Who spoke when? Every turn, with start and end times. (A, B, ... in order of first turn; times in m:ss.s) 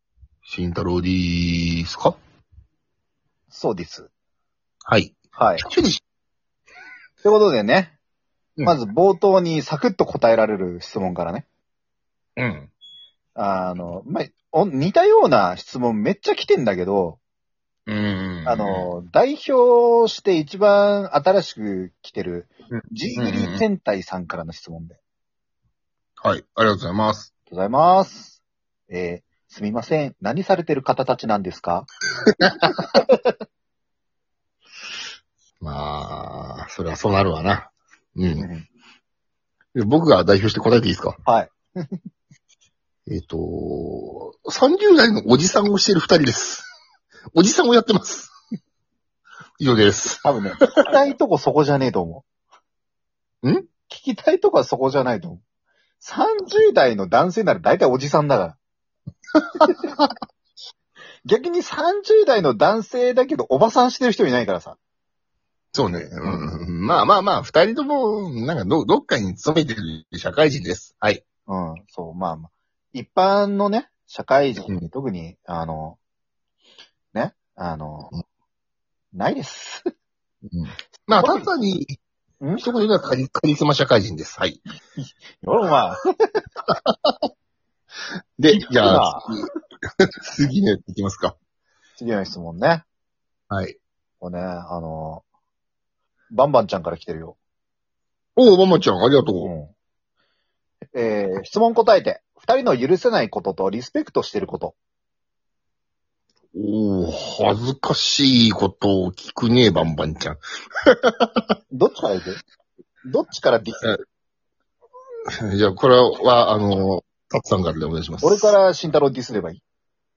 0:00.4-0:02.2 A
0:03.5-0:04.1 B
0:04.9-0:06.0 A
0:05.3-0:05.6 B
0:07.2-0:07.9 B
0:08.6-0:11.4 B
0:12.4-0:12.7 A
0:13.4-0:17.2 B
0:17.9-0:18.9 A
0:18.4-0:25.0 B
0:23.1-0:23.6 A
0:26.2-0:27.3 A
0:27.5-0:31.9 B
0:32.4-0:32.8 A
0:32.7-0:33.3 B
0:35.6-0:38.5 A
0:38.4-0:38.6 B
0:39.7-0:41.2 A
0:41.2-0:41.6 B
0:43.1-0:46.6 A
0:47.3-0:48.3 A
0:49.6-0:50.7 A
0:50.2-0:52.2 B
0:53.9-0:55.4 B
0:56.0-0:58.6 B
0:59.4-1:00.1 A
1:01.2-1:04.8 B
1:05.7-1:11.2 A
1:11.5-1:16.0 B
1:17.1-1:18.1 B
1:19.1-1:19.8 B
1:20.5-1:21.9 A
1:21.2-1:21.5 B
1:22.6-1:24.6 A
1:25.0-1:26.4 B
1:26.9-1:27.2 A
1:28.4-1:29.5 A
1:28.5-1:29.3 B
1:30.2-1:31.3 A
1:32.0-1:32.8 B
1:33.5-1:33.8 A
1:34.2-1:35.2 B
1:36.3-1:37.4 B
1:38.4-1:39.5 A
1:39.4-1:39.7 B
1:40.9-1:44.8 B
1:46.5-1:51.4 A
1:51.7-1:52.4 B
1:53.0-1:53.9 B
1:55.4-1:58.6 A
1:58.2-1:59.6 B